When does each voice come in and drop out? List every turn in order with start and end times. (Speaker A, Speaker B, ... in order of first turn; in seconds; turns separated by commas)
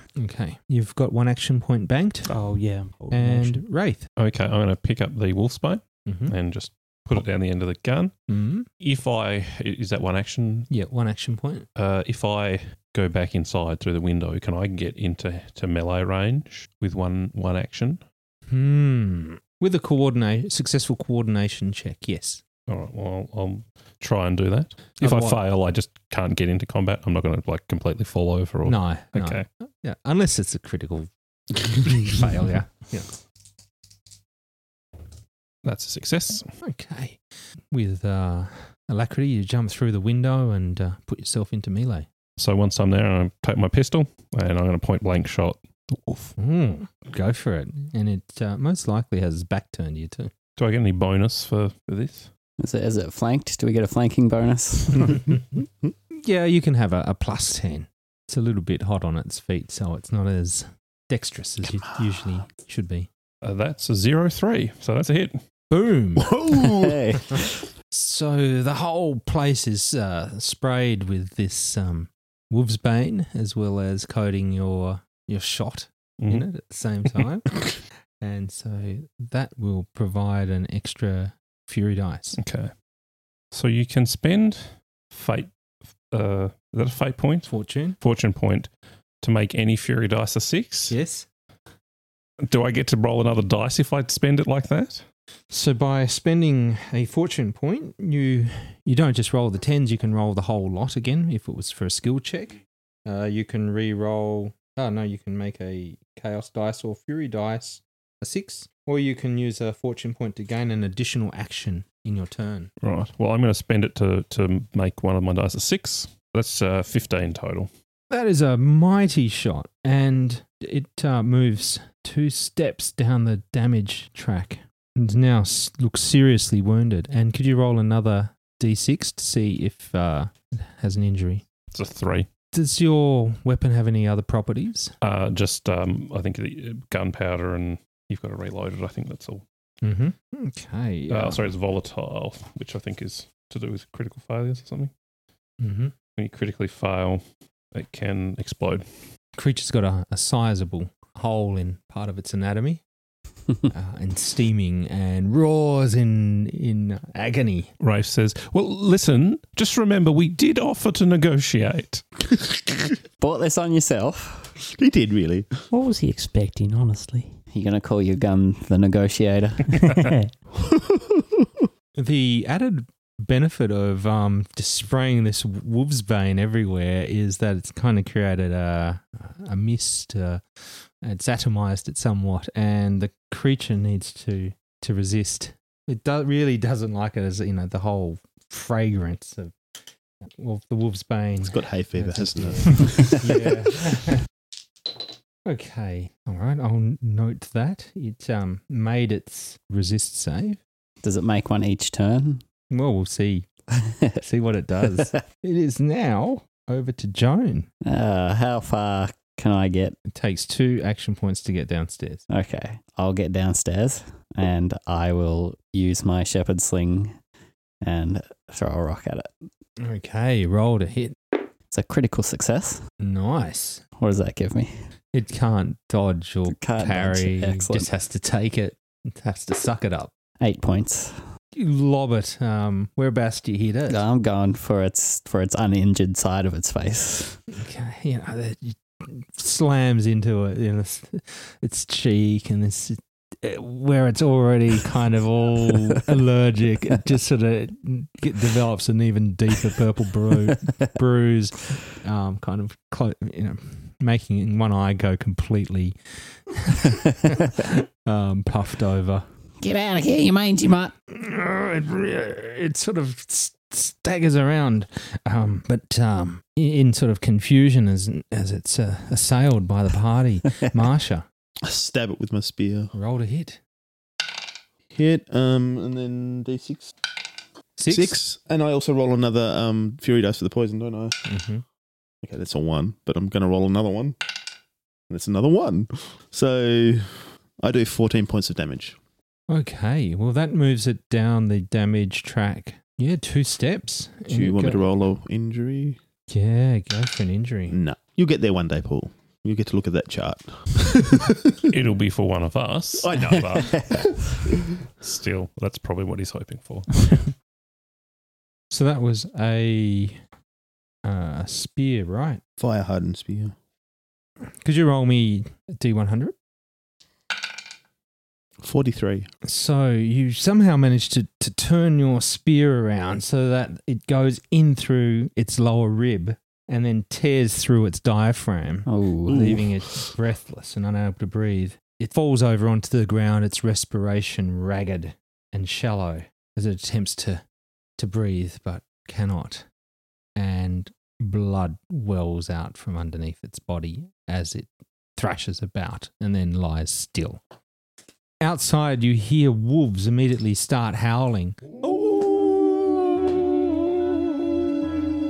Speaker A: 0.2-2.4, Speaker B: 2.3-3.6, Speaker A: 3.1-4.1, Speaker C: 4.2-8.1, Speaker A: 6.1-6.3, Speaker A: 8.3-8.7, Speaker C: 8.8-10.7, Speaker A: 10.7-11.7, Speaker C: 11.8-18.0, Speaker A: 18.5-22.4, Speaker C: 22.7-29.4, Speaker A: 25.0-25.4, Speaker A: 28.6-33.2, Speaker C: 35.6-36.5, Speaker A: 36.6-42.1, Speaker C: 42.4-46.4, Speaker A: 46.4-50.3, Speaker C: 50.6-52.3, Speaker D: 52.6-55.4, Speaker A: 56.1-63.1, Speaker C: 63.4-65.4, Speaker A: 65.7-66.6, Speaker E: 66.2-67.2, Speaker D: 66.8-67.6, Speaker A: 67.3-82.4, Speaker C: 76.2-76.5, Speaker C: 82.4-82.7, Speaker C: 83.5-85.5, Speaker C: 86.1-88.7, Speaker A: 87.5-88.0, Speaker C: 89.2-91.0, Speaker A: 90.9-91.3, Speaker C: 92.4-95.0, Speaker A: 95.5-112.7, Speaker C: 112.8-117.7, Speaker A: 118.1-131.4, Speaker C: 131.7-132.3, Speaker A: 132.5-134.9, Speaker C: 135.0-139.4, Speaker A: 139.8-141.5, Speaker C: 141.1-144.9, Speaker A: 145.6-145.9, Speaker C: 146.2-147.2, Speaker C: 147.7-148.8, Speaker A: 149.4-152.8, Speaker A: 153.7-157.7, Speaker C: 157.8-162.1, Speaker D: 163.2-164.5, Speaker E: 164.6-165.5, Speaker B: 165.7-167.4, Speaker D: 167.5-170.0, Speaker B: 169.7-170.3, Speaker E: 170.7-171.1, Speaker A: 172.0-189.5, Speaker A: 190.2-194.2, Speaker E: 191.5-193.0, Speaker A: 195.4-200.6, Speaker D: 201.0-202.4, Speaker A: 202.7-203.5, Speaker A: 204.2-207.7, Speaker D: 207.8-210.0, Speaker A: 210.1-212.2, Speaker D: 212.3-217.2, Speaker D: 217.8-219.3, Speaker A: 219.8-221.2, Speaker D: 221.7-222.8, Speaker A: 223.0-223.8, Speaker D: 224.0-224.7, Speaker A: 225.1-230.1, Speaker D: 226.5-227.9, Speaker D: 230.4-231.2, Speaker A: 231.6-234.0, Speaker D: 233.9-237.4, Speaker A: 237.5-259.2, Speaker D: 259.6-260.9, Speaker A: 261.1-271.2, Speaker E: 271.6-272.9, Speaker A: 272.9-273.6, Speaker E: 274.9-276.9, Speaker A: 277.8-278.2, Speaker E: 277.9-281.2, Speaker A: 281.3-281.6, Speaker E: 282.2-284.2, Speaker E: 285.1-289.0, Speaker A: 289.5-294.9, Speaker E: 294.3-296.0, Speaker A: 296.3-297.8, Speaker E: 297.7-301.6, Speaker C: 301.7-304.2, Speaker E: 303.0-304.0, Speaker D: 303.6-304.0, Speaker C: 305.0-307.3, Speaker A: 308.7-310.2, Speaker A: 311.0-312.4, Speaker E: 312.6-313.6, Speaker A: 314.6-316.4, Speaker E: 318.6-319.3, Speaker A: 319.4-337.4, Speaker D: 328.9-329.8, Speaker A: 338.0-339.7, Speaker A: 340.4-347.4, Speaker A: 348.4-354.5